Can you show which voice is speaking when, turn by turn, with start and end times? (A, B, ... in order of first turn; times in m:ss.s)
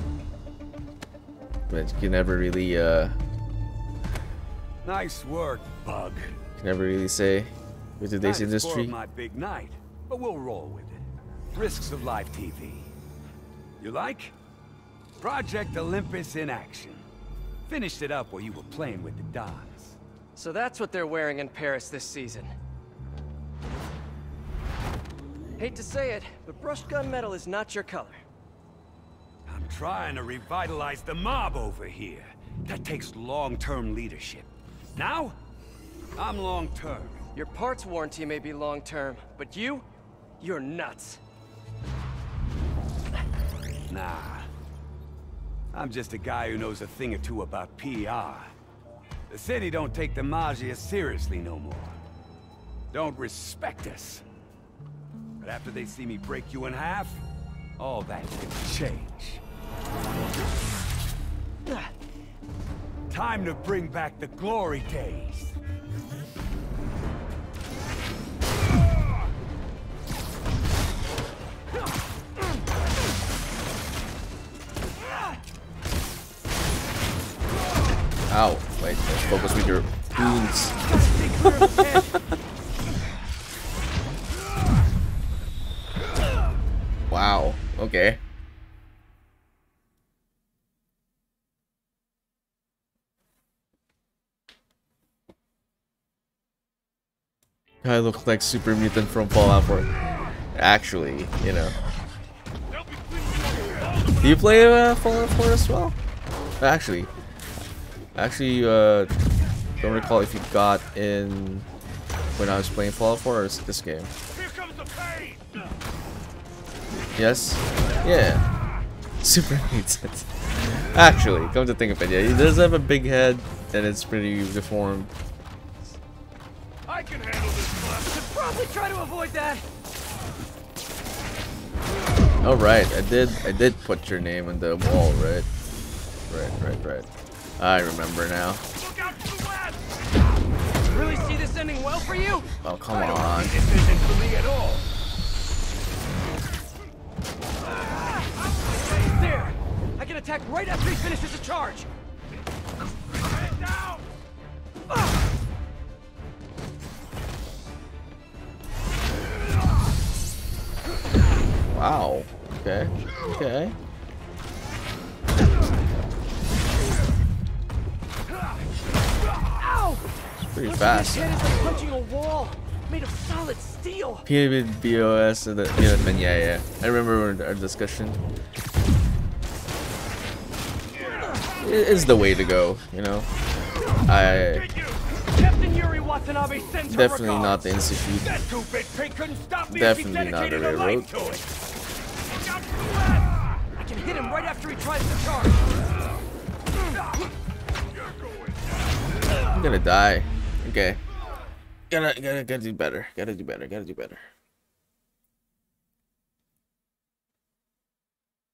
0:01.7-0:03.2 A
0:04.8-0:06.4 B
0:06.6-0:09.0 A
0:08.2-0:12.9 B
0:13.8-0:14.4 B
0:15.2-0:17.0 B
0:17.7-0:20.0 B
0:20.4-0:22.5 C
0:25.6-0:28.2 C
0:29.5-0:35.4 B
0:36.2-0:37.2 B
0:37.4-0:39.9 C
0:40.4-0:41.2 C
0:43.9-0:44.5 B
0:45.7-0:48.5 B
0:49.3-0:52.0 B
0:52.9-0:54.2 B
0:55.4-0:57.2 B
0:57.8-0:59.4 B
1:03.1-1:05.6 B
1:18.3-1:20.8 A
1:20.8-1:22.2 C
1:21.4-1:22.0 A
1:27.1-1:28.2 A
1:37.8-1:39.9 A
1:40.5-1:41.8 A
1:42.7-1:44.8 D
1:44.2-1:46.0 A
1:46.6-1:47.1 A
1:48.2-1:49.1 A
1:49.8-1:51.7 A
1:52.4-1:54.1 A
1:54.3-1:55.7 D
1:56.9-1:58.4 A
1:59.2-2:05.1 A
2:06.9-2:08.2 D
2:08.1-2:09.6 C
2:12.4-2:15.5 A
2:16.3-2:18.6 A
2:18.8-2:19.9 D
2:20.9-2:22.5 C
2:22.6-2:23.6 A
2:22.9-2:24.9 B
2:28.9-2:31.9 C
2:33.2-2:34.1 D
2:41.7-2:43.8 A
2:49.5-2:50.0 C
2:50.4-2:51.4 A
2:50.6-2:54.3 C
2:54.3-2:58.2 A
3:01.0-3:02.2 D
3:01.6-3:03.3 A
3:04.0-3:04.7 A
3:04.2-3:05.0 D
3:05.3-3:07.7 C
3:06.9-3:08.5 A
3:09.4-3:11.4 C
3:09.7-3:11.1 A
3:12.3-3:13.4 D
3:13.8-3:15.6 C
3:18.0-3:18.6 D
3:19.5-3:21.0 A
3:21.9-3:24.3 A